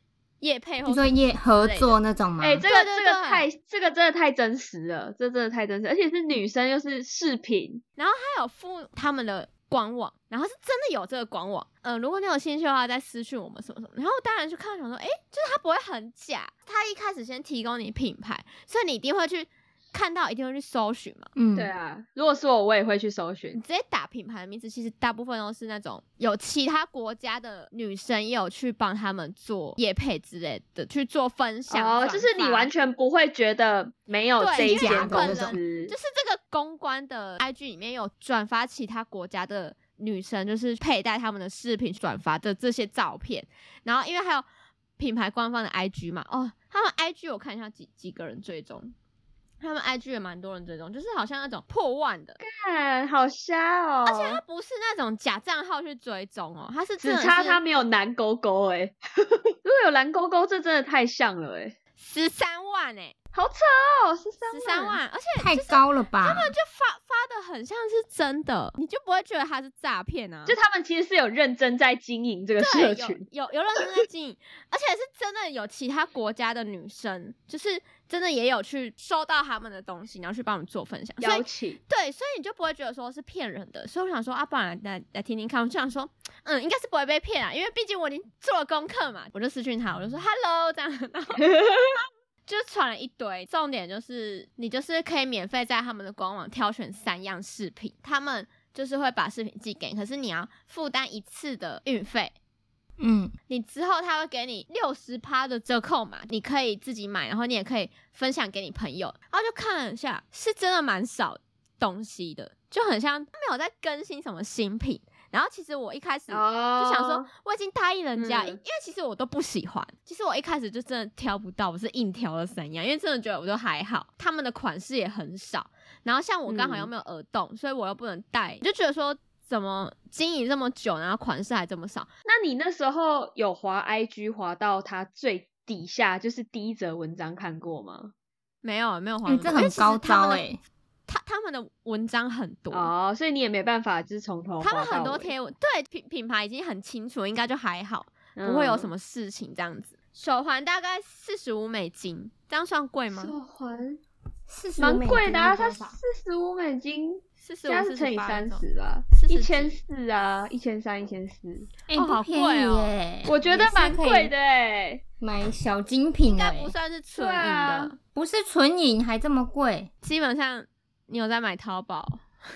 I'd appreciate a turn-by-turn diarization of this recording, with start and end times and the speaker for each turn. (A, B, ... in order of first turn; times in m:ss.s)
0:00.4-0:01.9 A
0:00.8-0:02.6 B
0:02.4-0:07.8 C
0:02.6-0:03.5 A
0:08.0-0:21.3 A
0:21.4-0:21.7 B
0:21.6-0:23.6 C
0:23.5-0:32.7 A
0:31.7-0:35.9 C
0:34.4-0:44.4 A
0:34.6-0:35.6 B
0:45.0-0:48.9 A
0:49.6-0:52.4 A
0:52.4-0:54.4 C
0:54.0-0:57.6 A
0:57.0-1:01.8 C
1:02.0-1:03.1 A
1:03.3-1:05.0 C
1:04.5-1:10.6 A
1:05.4-1:06.5 B
1:10.5-1:13.3 C
1:12.6-1:31.5 A
1:21.2-1:21.8 C
1:31.4-1:32.0 C
1:32.5-1:42.3 A
1:43.0-1:43.3 B
1:43.5-2:12.1 A
1:56.3-1:57.3 C
1:58.2-1:58.6 C
2:06.5-2:06.9 C
2:12.3-2:18.1 C
2:18.6-2:20.4 A
2:19.2-2:20.6 B
2:21.1-2:22.9 A
2:22.7-2:25.3 C
2:24.6-2:33.3 A
2:28.4-2:28.9 C
2:33.1-2:34.0 C
2:34.5-2:36.0 B
2:34.8-2:41.7 C
2:37.4-2:39.8 A
2:41.9-2:44.3 B
2:42.0-2:42.9 A
2:43.3-2:45.0 C
2:45.2-2:46.7 B
2:46.2-2:48.0 A
2:47.2-2:47.9 C
2:48.1-2:49.9 B
2:50.0-2:52.2 A